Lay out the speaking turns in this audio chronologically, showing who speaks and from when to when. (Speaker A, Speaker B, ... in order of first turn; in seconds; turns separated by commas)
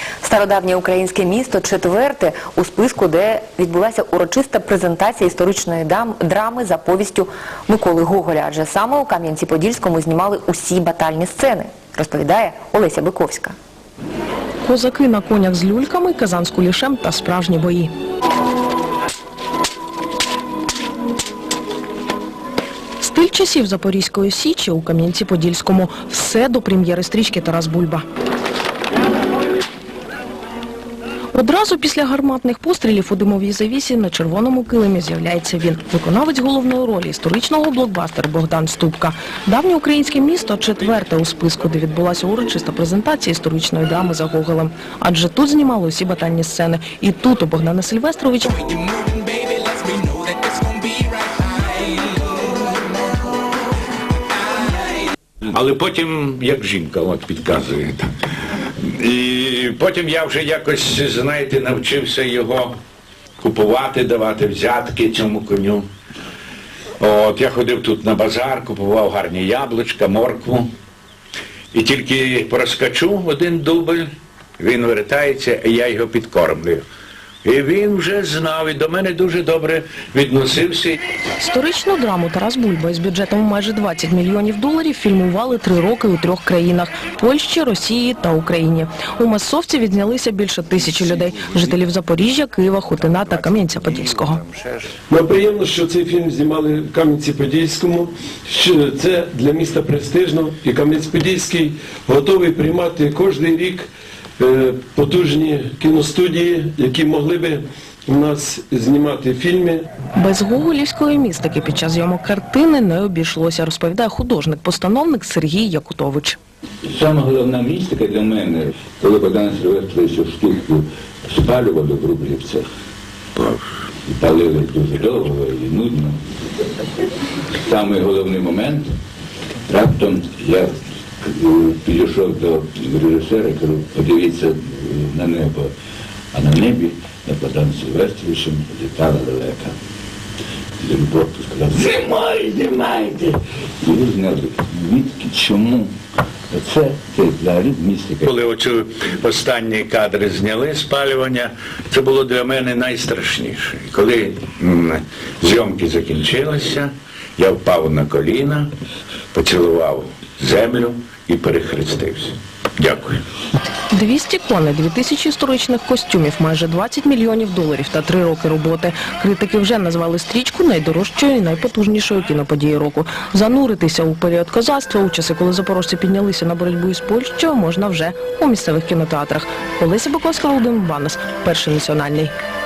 Speaker A: 0.2-13.6, Speaker B: 14.6-17.9, Speaker B: 23.0-28.0, Speaker B: 31.3-48.6, Speaker C: 55.5-58.1, Speaker C: 58.8-62.8, Speaker C: 63.4-65.9, Speaker C: 67.0-70.7, Speaker C: 71.7-74.1, Speaker C: 74.6-76.9, Speaker C: 77.4-81.0, Speaker B: 81.4-94.4, Speaker D: 95.1-109.9, Speaker B: 110.2-116.4, Speaker E: 116.8-122.7, Speaker E: 124.1-126.2, Speaker E: 127.6-128.9, Speaker E: 129.7-135.7, Speaker E: 136.3-139.8, Speaker E: 140.8-145.9, Speaker E: 146.5-148.3, Speaker C: 148.2-158.7, Speaker C: 159.3-163.2, Speaker B: 163.9-182.3